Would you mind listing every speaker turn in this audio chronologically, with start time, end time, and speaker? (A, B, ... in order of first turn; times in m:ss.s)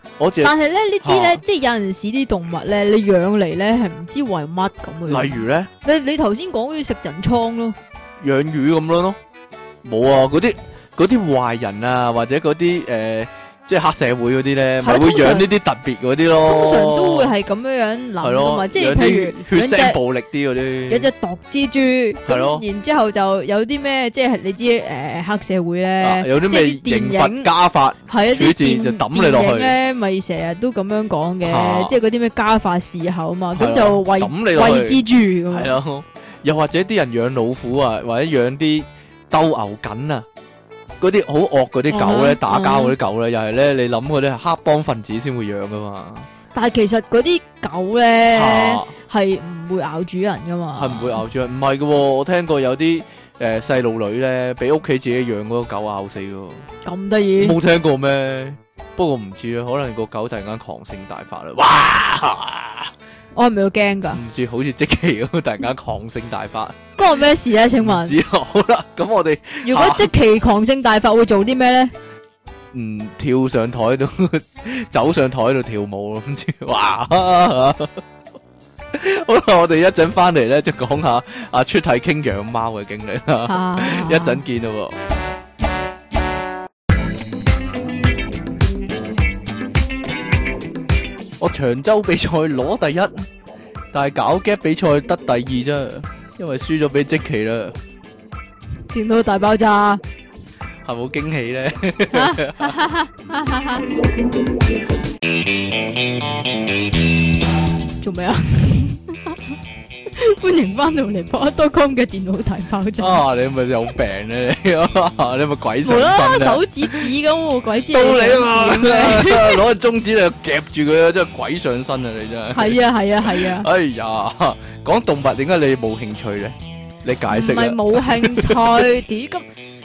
0:00.2-0:01.4 A
0:00.4-0:07.8 B
0:05.1-0:05.7 A
0:08.2-0:09.2 A
0:09.8-0:17.3 A
0:14.8-0:15.5 B
0:16.4-0:20.0 B
0:18.2-0:21.1 A
0:20.9-0:27.5 B
0:22.2-0:22.6 A
0:26.0-0:29.8 A
0:28.1-0:35.7 B
0:31.4-0:32.0 A
0:33.5-0:40.3 A
0:41.0-0:46.3 A
0:41.9-0:43.0 B
0:46.5-0:51.2 B
0:48.3-0:48.9 A
0:50.8-0:56.6 A
0:56.8-0:57.6 B
0:57.4-1:02.9 A
1:03.3-1:04.2 B
1:04.1-1:06.8 A
1:07.0-1:08.2 B
1:07.8-1:10.1 A
1:09.6-1:11.9 B
1:12.7-1:18.0 A
1:18.9-1:25.0 A
1:23.4-1:24.4 B
1:31.4-1:33.2 A
1:33.9-1:37.8 A
1:38.9-1:40.0 B
1:40.8-1:42.8 A
1:42.1-1:43.9 B
1:48.0-1:49.4 B
1:50.1-1:53.2 B
1:53.0-1:57.1 A
1:55.8-1:59.6 B
1:57.8-2:08.8 A
2:02.5-2:03.7 B
2:07.3-2:09.4 B